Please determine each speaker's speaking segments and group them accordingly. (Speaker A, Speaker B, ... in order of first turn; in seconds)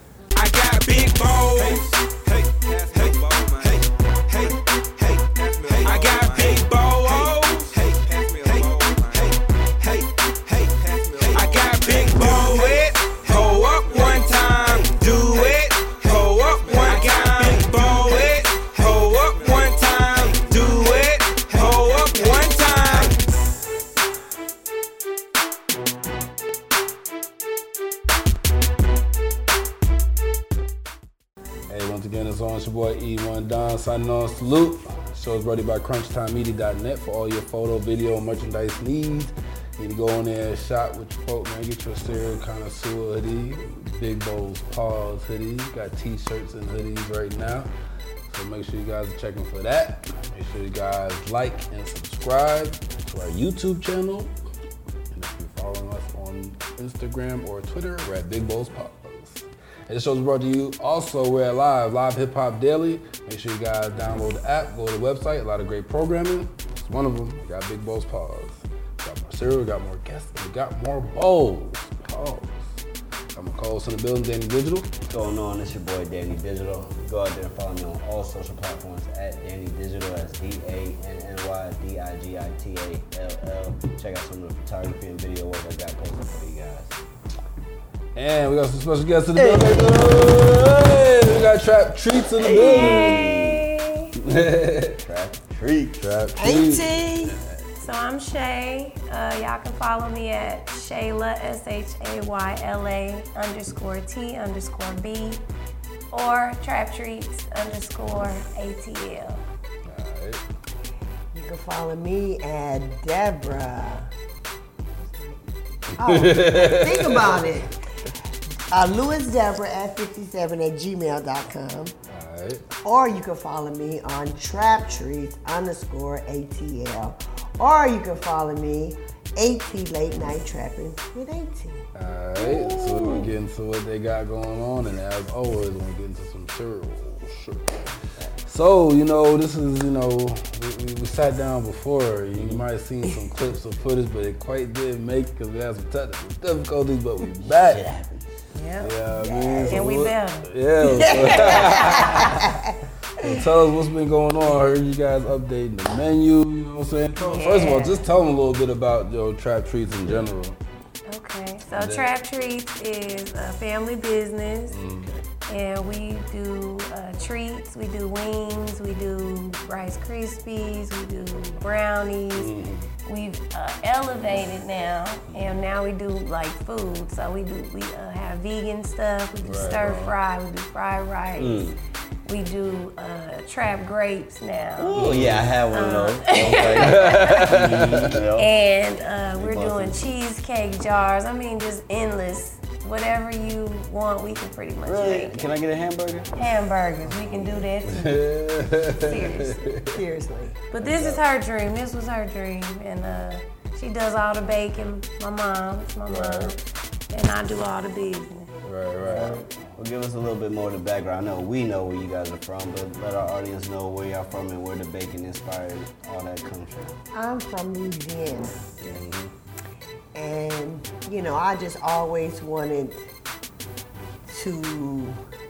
Speaker A: 0.3-23.2
Speaker B: 31.7-47.7, 48.3-54.3, 55.1-72.7, 73.3-74.9, 88.2-93.2, 94.2-95.0, 96.0-97.0, 109.8-110.4, 116.0-117.5, 122.1-122.6, 131.9-137.7, 138.5-147.8, 148.8-152.6, 153.2-160.6, 161.7-162.1, 164.7-165.1, 172.3-172.9, 179.4-180.1, 184.9-185.6, 186.8-188.2, 197.2-200.0, 200.8-201.2, 206.1-206.6, 208.6-209.4, 218.8-219.3
Speaker C: 75.1-87.0, 92.4-93.7, 95.0-96.1, 132.4-133.3, 147.4-148.3, 181.4-181.8, 184.8-188.5, 189.3-190.1, 194.9-196.3, 209.0-217.0
Speaker D: 89.4-89.9, 96.4-97.4, 111.3-114.1, 115.0-117.7, 118.7-121.9, 122.8-131.8, 149.1-150.1, 150.8-152.7, 199.9-200.6, 217.1-218.6, 220.1-223.0, 224.3-225.2
Speaker E: 92.5-94.1, 97.8-105.4, 106.1-109.4, 148.6-148.9, 149.7-150.5, 151.2-152.4, 157.2-158.1, 161.1-164.8, 165.5-172.5, 173.1-181.7, 182.3-185.2, 185.7-187.6, 188.3-195.5, 196.4-198.3, 199.0-199.7, 200.7-206.6, 207.1-208.5